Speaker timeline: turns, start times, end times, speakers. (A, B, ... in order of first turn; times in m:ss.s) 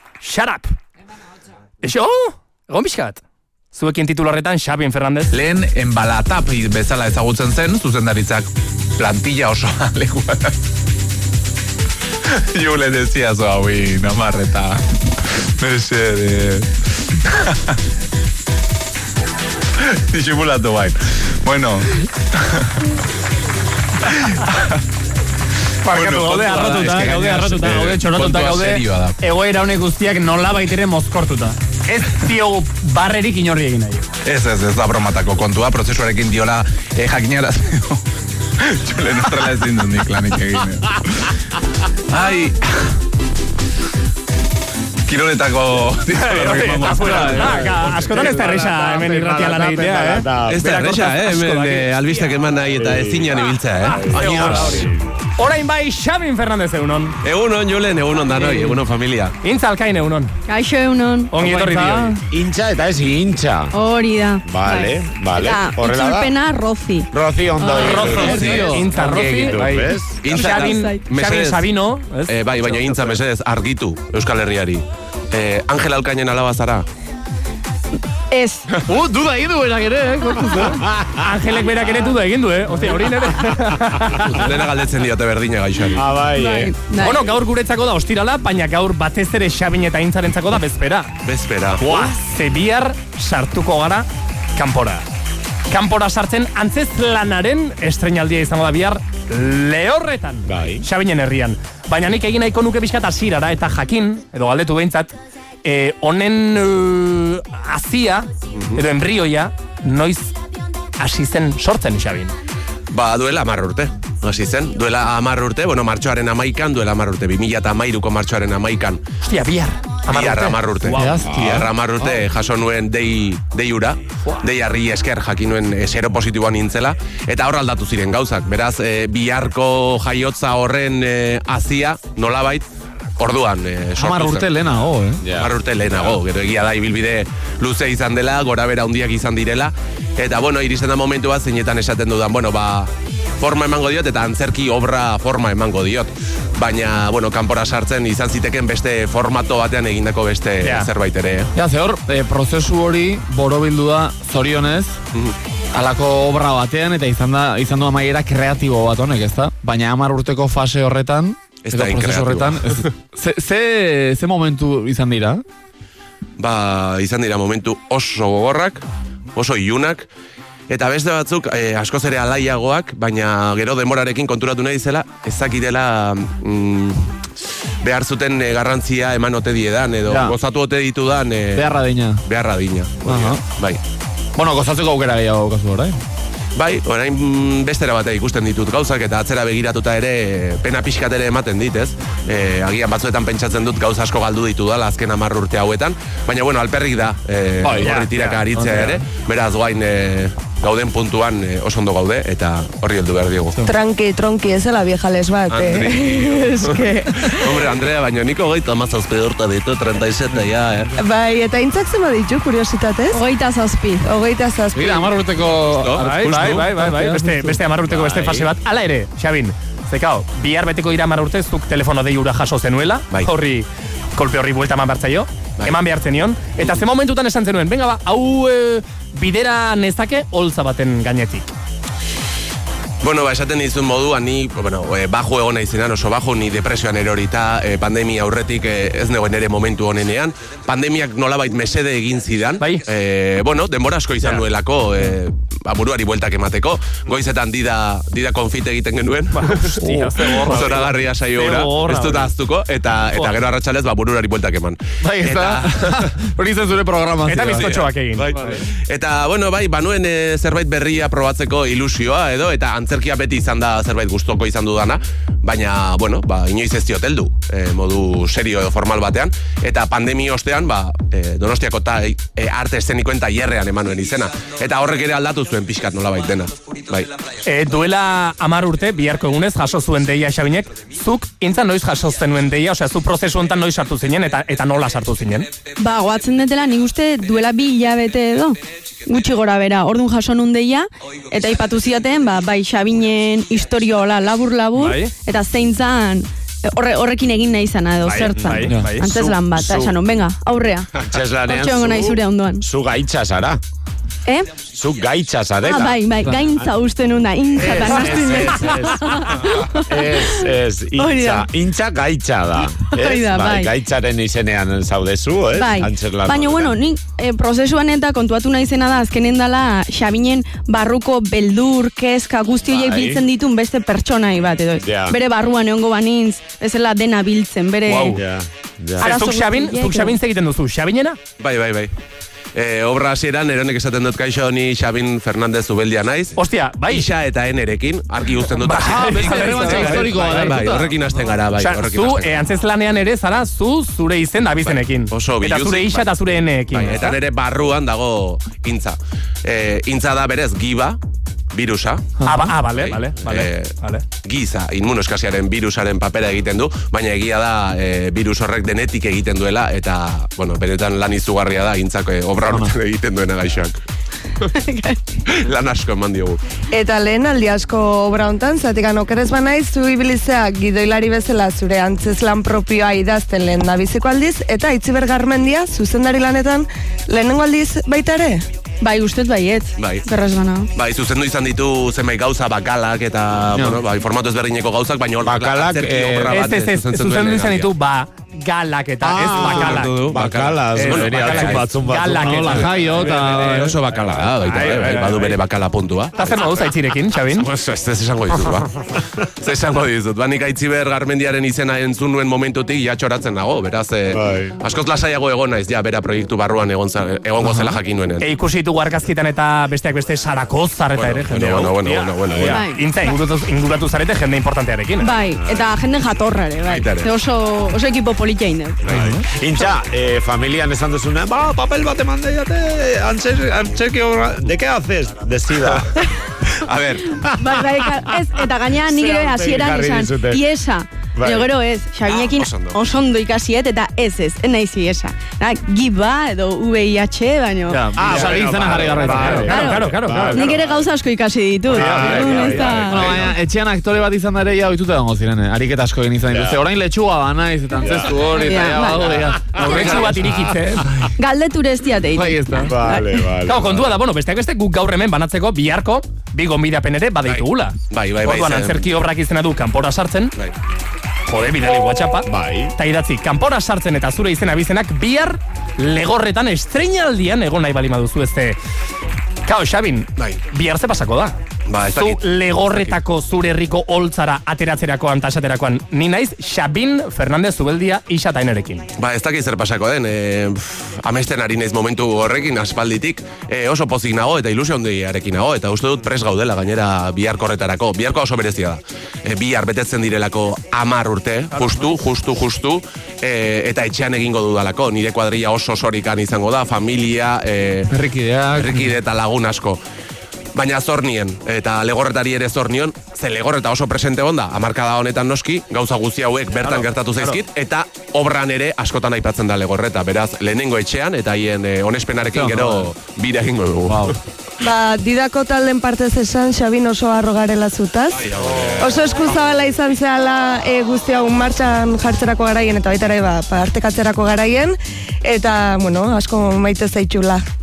0:00.2-0:00.8 A
0:01.8-0:03.2 A
0:03.7-0:05.3 A
0:05.3-0:10.5 B
0:12.3-0:16.7 B
0:13.0-0:13.3 C
0:19.8-0:21.9 B
0:25.8-0:34.1 A
0:25.9-0:29.2 B
0:34.2-0:38.0 C
0:37.0-0:37.8 B
0:38.7-0:41.0 B
0:38.8-0:39.9 C
0:42.1-0:42.6 C
0:45.1-0:48.0 C
0:46.2-0:52.3 A
0:47.4-0:50.7 D
0:50.5-0:54.9 C
0:52.8-0:53.4 D
0:53.9-0:57.2 A
0:54.0-0:55.0 D
0:57.2-0:59.4 C
0:59.4-1:00.3 A
1:00.5-1:01.4 E
1:01.3-1:02.2 A
1:01.4-1:02.1 F
1:02.3-1:03.8 D
1:03.7-1:08.0 E
1:04.4-1:06.4 D
1:07.1-1:10.1 D
1:07.8-1:12.4 A
1:07.8-1:09.6 F
1:10.2-1:11.7 C
1:10.3-1:11.0 E
1:12.3-1:16.8 C
1:18.3-1:18.7 E
1:18.8-1:20.9 F
1:21.2-1:24.5 A
1:24.1-1:26.1 C
1:26.0-1:26.7 D
1:26.3-1:27.2 E
1:27.0-1:31.1 A
1:31.2-1:32.1 C
1:31.8-1:35.0 A
1:35.7-1:45.1 A
1:40.5-1:40.8 D
1:45.6-1:50.3 A
1:48.5-1:48.8 C
1:51.0-1:52.3 A
1:52.9-1:59.0 C
1:59.2-2:01.1 A
2:00.1-2:12.6 C
2:00.9-2:01.7 F
2:01.2-2:01.5 D
2:13.2-2:14.5 C
2:14.0-2:15.2 F
2:15.2-2:15.5 D
2:15.3-2:31.5 C
2:30.6-2:30.9 A
2:31.6-2:35.0 F
2:35.7-2:45.4 F
2:41.6-2:42.8 C
2:46.4-2:50.1 C
2:50.7-2:57.1 C
2:57.8-3:01.7 C
3:00.1-3:00.4 F
3:01.5-3:02.2 F
3:02.2-3:03.8 C
3:03.0-3:03.4 F
3:04.4-3:06.0 F
3:06.6-3:23.6 C
3:17.6-3:19.0 F
3:17.8-3:18.4 A
3:23.6-3:26.5 G
3:25.5-3:30.9 C
3:26.4-3:27.6 E
3:31.0-3:33.2 G
3:33.1-3:34.1 E
3:34.0-3:35.1 G
3:34.7-3:37.6 F
3:35.7-3:36.7 C
3:36.0-3:51.5 A
3:37.9-3:38.5 C
3:53.0-4:16.0 C
4:02.6-4:02.8 A
4:09.3-4:12.3 A
4:15.0-4:17.7 F
4:17.3-4:18.6 A
4:17.6-4:37.1 C
4:37.4-4:45.5 A
4:45.8-5:00.9 E
4:54.8-4:55.1 A
4:58.0-4:59.4 A
4:58.7-4:59.0 F
4:59.5-5:00.0 D
5:01.0-5:03.6 D
5:01.5-5:02.6 E
5:04.2-5:04.6 E
5:04.6-5:06.8 D
5:05.6-5:10.4 E
5:07.6-5:16.8 D
5:11.0-5:11.5 E
5:12.8-5:13.7 E
5:15.5-5:28.2 E
5:22.8-5:23.3 D
5:24.8-5:25.2 D
5:27.9-5:28.2 A
5:28.1-5:29.2 D
5:29.0-5:31.2 A
5:29.0-5:30.2 E
5:31.4-5:31.9 C
5:32.5-5:36.4 C
5:36.4-5:37.1 A
5:36.9-5:42.4 C
5:38.6-5:40.5 A
5:38.9-5:40.9 F
5:41.6-5:47.2 A
5:44.6-5:46.1 C
5:46.7-5:51.0 C
5:51.5-5:52.1 C
5:52.2-5:54.0 A
5:52.7-5:53.7 C
5:54.2-6:03.8 C
6:02.5-6:02.7 F
6:04.5-6:05.0 E
6:05.3-6:06.4 C
6:06.7-6:18.5 G
6:18.8-6:20.7 E
6:19.8-6:20.1 C
6:20.7-6:27.7 C
6:23.5-6:23.8 F
6:25.2-6:26.5 D
6:26.3-6:30.0 A
6:29.0-6:32.7 D
6:29.3-6:31.7 C
6:30.7-6:33.2 A
6:32.2-6:33.8 F
6:32.5-6:36.7 C
6:34.4-6:35.4 A
6:36.2-6:37.5 A
6:37.3-6:48.3 C
6:44.1-6:44.6 D
6:47.4-6:55.2 A
6:51.0-6:52.7 C
6:52.4-6:52.8 E
6:55.0-6:59.0 E
6:56.7-6:57.1 C
6:58.8-6:59.2 C
6:58.9-7:05.9 D
7:06.7-7:07.0 C
7:07.1-7:08.3 D
7:07.2-7:18.2 E
7:08.8-7:10.4 D
7:11.2-7:11.5 D
7:12.0-7:12.8 C
7:17.7-7:19.6 F
7:17.9-7:20.7 D
7:18.0-7:20.5 A
7:19.4-7:23.3 E
7:21.7-7:22.7 A
7:21.7-7:23.3 D
7:22.0-7:30.0 F
7:26.3-7:26.6 D
7:27.8-7:28.3 D
7:28.3-7:29.1 E
7:28.9-7:30.1 D
7:29.5-7:30.9 A
7:29.6-7:30.2 C
7:31.2-7:33.0 E
7:32.1-7:32.7 F
7:32.6-7:34.0 D
7:33.4-7:40.4 A
7:37.2-7:38.9 C
7:41.3-7:48.6 A
7:42.3-7:42.7 D
7:49.4-7:51.4 A
7:51.7-7:53.0 C
7:52.0-7:58.9 A
7:59.0-8:17.9 C
8:17.9-8:19.0 F
8:18.6-8:19.8 C
8:20.6-8:34.2 C
8:26.6-8:27.4 A
8:32.3-8:32.9 F
8:33.9-8:34.2 F
8:34.6-8:47.4 G
8:38.2-8:39.2 C